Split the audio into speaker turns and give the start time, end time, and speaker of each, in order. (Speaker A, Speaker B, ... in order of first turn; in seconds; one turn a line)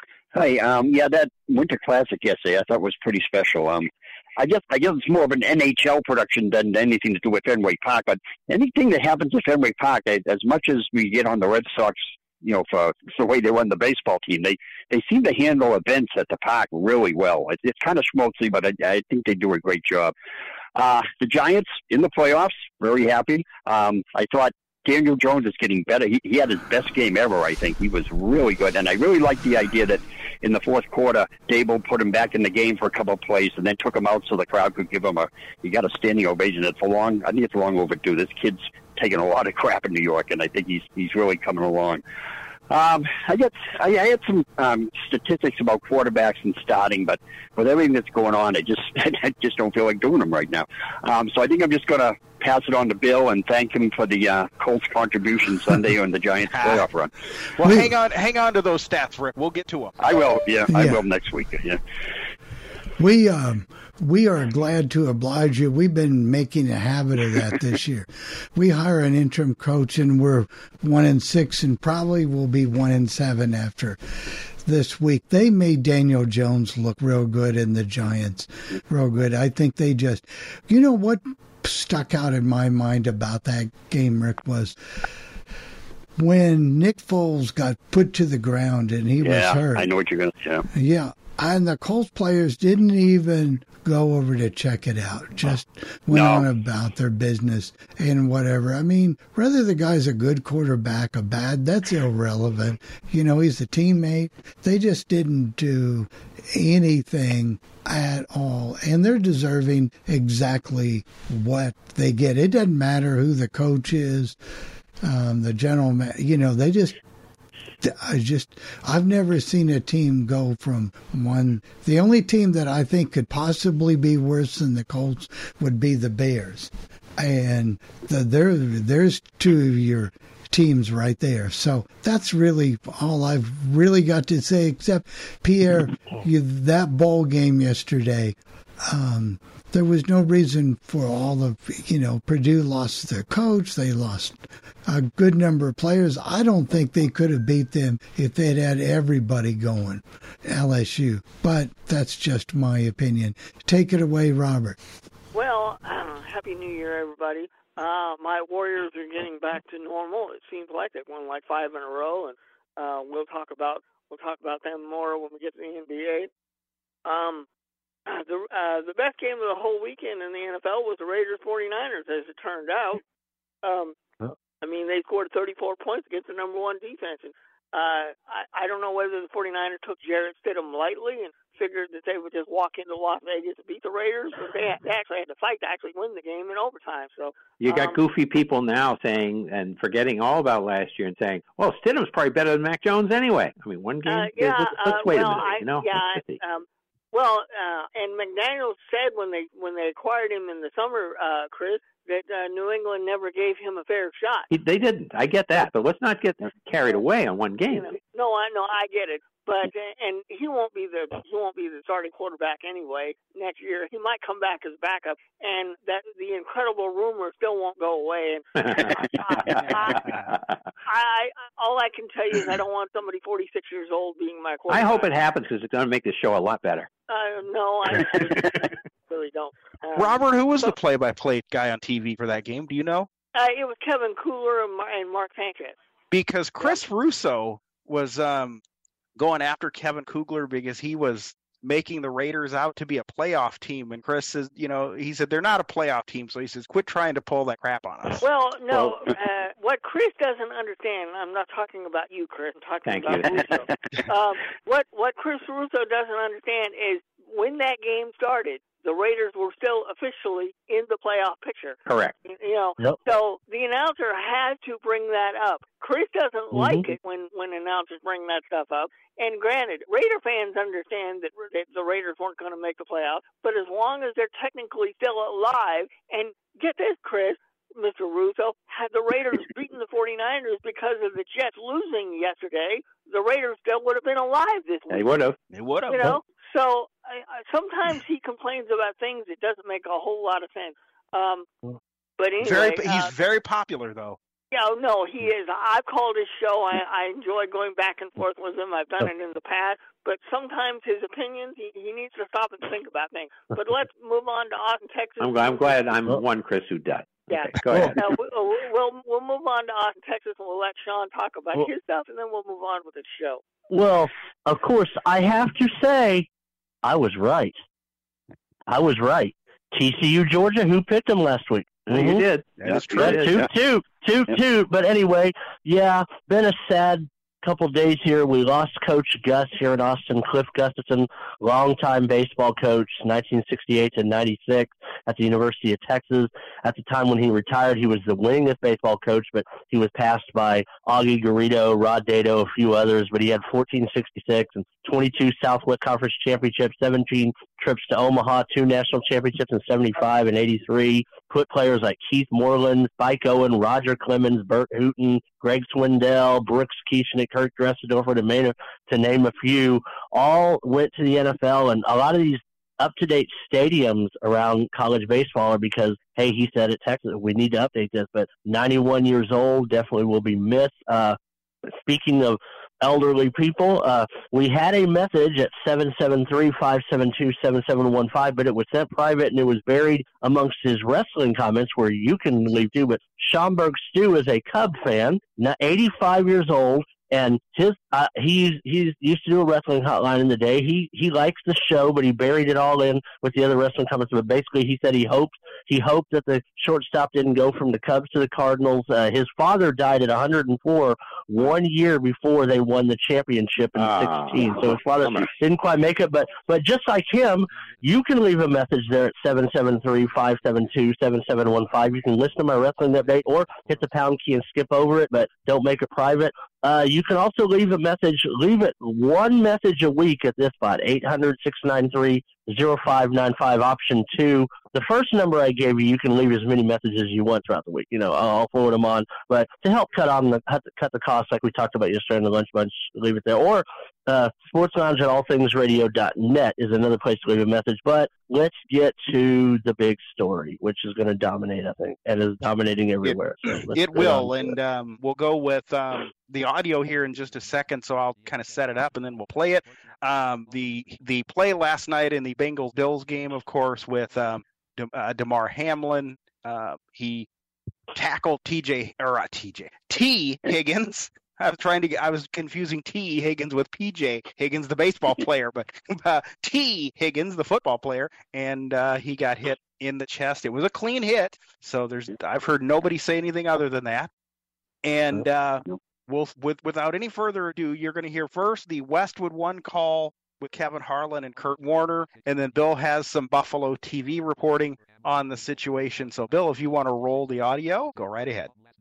Speaker A: 0.3-20.1
Speaker A: 20.8-42.0
Speaker A: 42.7-57.1
Speaker B: 56.5-56.8
Speaker B: 57.6-60.0
Speaker C: 57.6-57.9
Speaker A: 60.0-61.8
Speaker C: 60.7-61.0
Speaker C: 63.0-74.0
Speaker C: 74.6-84.8
Speaker C: 86.2-89.9
Speaker A: 89.2-90.7
Speaker C: 90.7-114.3
Speaker A: 96.1-96.4
Speaker C: 115.0-117.0
Speaker C: 117.8-154.8
Speaker D: 155.3-166.3
Speaker D: 167.0-167.5
Speaker D: 168.1-173.0
Speaker D: 173.6-174.0
Speaker D: 174.6-188.0
Speaker E: 187.6-196.4
Speaker D: 194.1-204.5
Speaker E: 204.5-208.0
Speaker D: 207.8-220.2
Speaker E: 218.6-219.6
Speaker D: 220.8-225.1
Speaker E: 224.7-226.9
Speaker D: 227.1-230.7
Speaker B: 229.9-233.1
Speaker D: 233.3-235.7
Speaker B: 236.1-238.6
Speaker B: 239.2-248.2
Speaker D: 248.2-285.1
Speaker E: 252.8-253.7
Speaker E: 261.9-262.1
Speaker F: 266.5-266.9
Speaker E: 284.9-285.4
Speaker B: 285.5-286.1
Speaker D: 285.9-291.5
Speaker D: 292.2-293.1
Speaker B: 292.4-294.2
Speaker D: 294.5-305.8
Speaker E: 305.2-308.0
Speaker D: 307.3-313.4
Speaker F: 313.7-316.3
Speaker F: 316.8-317.6
Speaker F: 318.7-322.2
Speaker E: 321.9-323.4
Speaker B: 322.6-323.5
Speaker F: 322.8-371.2
Speaker F: 371.8-444.5
Speaker E: 403.8-405.3
Speaker B: 443.7-457.3
Speaker B: 457.9-474.1
Speaker B: 474.8-488.5